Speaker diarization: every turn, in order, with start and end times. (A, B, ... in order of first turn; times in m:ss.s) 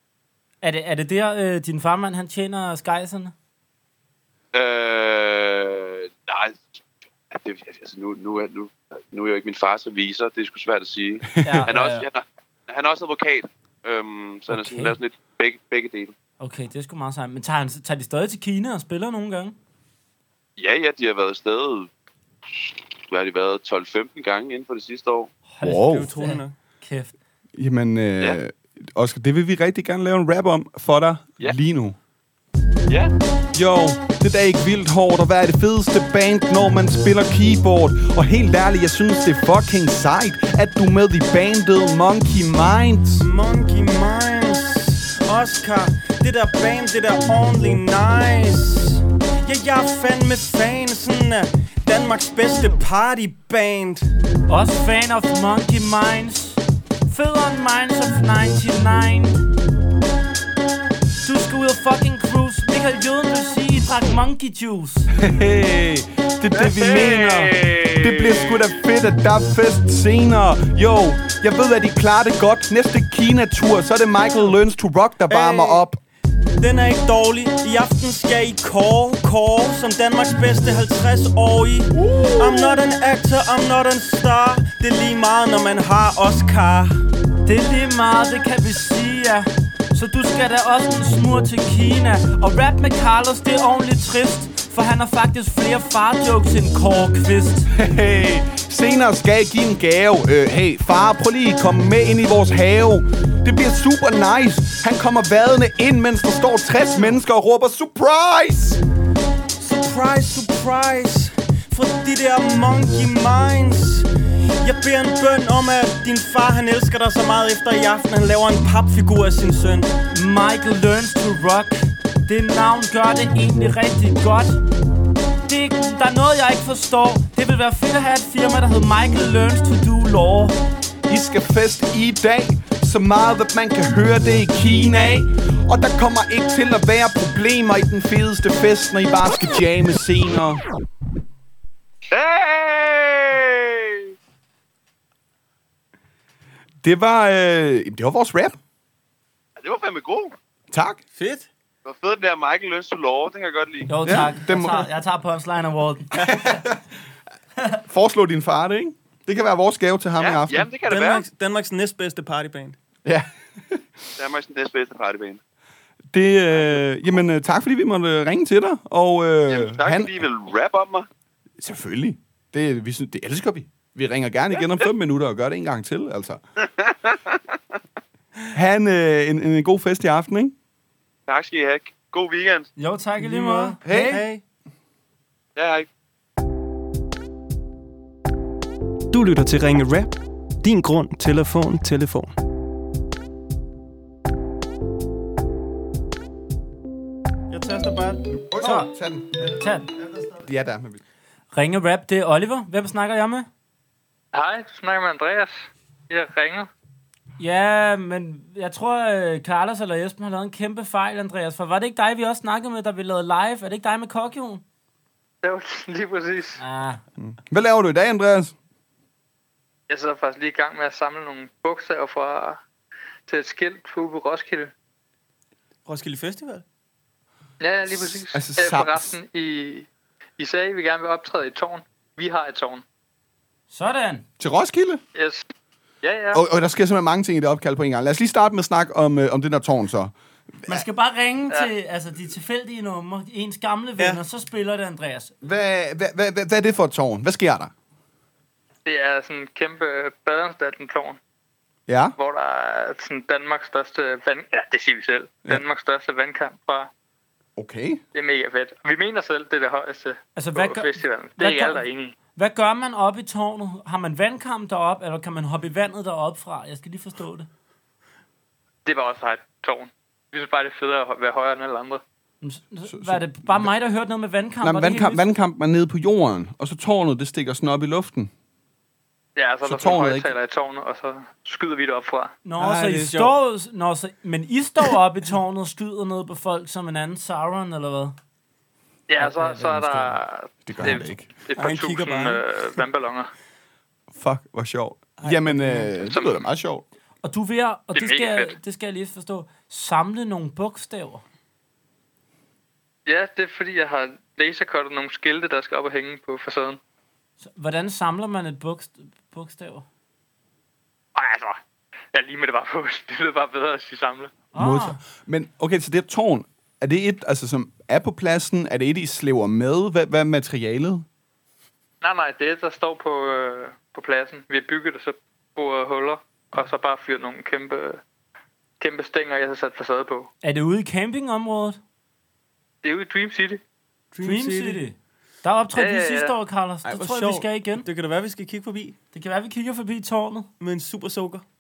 0:00.6-0:03.3 A
0:04.5-0:16.1 B
0:11.4-0:12.1 A
0:11.4-0:11.7 C
0:14.5-0:15.0 A
0:16.4-0:19.6 A
0:20.6-0:21.9 B
0:23.1-0:25.3 B
0:25.5-0:27.2 A
0:25.6-0:26.1 C
0:25.8-0:26.6 D
0:27.6-0:32.0 C
0:33.5-0:43.2 C
0:43.2-0:54.1 D
0:54.5-0:59.4 A
1:01.2-1:05.1 A
1:05.1-1:16.0 C
1:06.6-1:08.7 B
1:15.3-1:15.8 D
1:16.6-1:27.0 D
1:21.9-1:22.8 C
1:27.4-1:37.7 A
1:37.7-1:48.8 C
1:49.6-1:54.1 D
1:54.6-1:59.9 D
2:00.1-2:04.6 A
2:05.5-2:10.6 A
2:11.1-2:20.6 C
2:22.1-2:24.1 B
2:26.8-2:28.6 C
2:29.6-2:30.4 B
2:30.7-2:31.0 C
2:31.1-2:31.5 D
2:31.8-2:33.9 B
2:33.9-2:36.6 A
2:34.0-2:34.9 C
2:36.2-2:36.8 C
2:37.9-2:40.7 C
2:40.2-2:41.3 B
2:40.9-2:42.8 D
2:43.0-2:43.8 C
2:44.2-2:45.4 B
2:46.1-2:50.2 C
2:49.5-2:51.1 B
2:51.6-2:56.4 C
2:56.8-2:57.4 B
2:58.5-3:00.5 C
3:01.3-3:02.7 B
3:02.8-3:04.3 A
3:03.2-3:04.4 D
3:03.8-3:04.2 C
3:05.6-3:05.9 B
3:09.1-3:12.4 D
3:17.5-3:18.3 D
3:18.4-3:21.0 C
3:18.6-3:18.9 A
3:19.6-3:19.9 A
3:21.5-3:23.5 A
3:24.3-3:26.7 E
3:27.4-3:34.6 A
3:35.4-3:36.6 E
3:36.6-3:37.0 A
3:37.2-3:38.6 C
3:39.9-3:42.6 E
3:43.3-3:44.7 E
3:45.9-3:46.6 D
3:47.6-3:49.9 E
3:47.9-3:49.2 C
3:50.4-3:52.8 E
3:53.7-3:54.2 A
3:54.4-3:55.0 C
3:55.2-3:55.4 E
3:56.0-3:56.4 E
3:56.3-4:00.8 C
4:00.7-4:05.3 A
4:05.4-4:07.7 C
4:08.9-4:11.2 E
4:11.9-4:12.2 C
4:12.2-4:16.9 E
4:17.6-4:18.0 C
4:18.1-4:22.2 E
4:20.4-4:21.8 A
4:22.4-4:27.5 A
4:28.9-4:32.0 E
4:32.4-4:35.3 A
4:32.9-4:33.7 C
4:34.6-4:38.3 C
4:39.4-4:42.4 E
4:39.6-4:40.3 C
4:42.4-4:48.2 A
4:42.6-4:43.4 D
4:49.1-4:53.3 E
4:49.2-4:50.2 A
4:50.7-4:51.3 C
4:51.6-4:52.4 D
4:54.1-4:56.8 C
4:55.2-4:55.9 D
4:56.1-4:56.4 E
4:57.2-5:01.2 A
4:57.9-4:58.6 E
5:03.1-5:06.8 E
5:07.4-5:09.9 A
5:11.2-5:11.6 E
5:12.1-5:14.3 E
5:14.5-5:15.0 A
5:14.6-5:21.0 C
5:22.0-5:28.0 E
5:28.8-5:30.3 E
5:30.4-5:31.8 A
5:32.8-5:33.6 E
5:34.1-5:34.8 D
5:34.2-5:37.9 A
5:35.8-5:36.4 E
5:36.8-5:39.0 D
5:39.1-5:40.5 A
5:40.6-5:41.4 D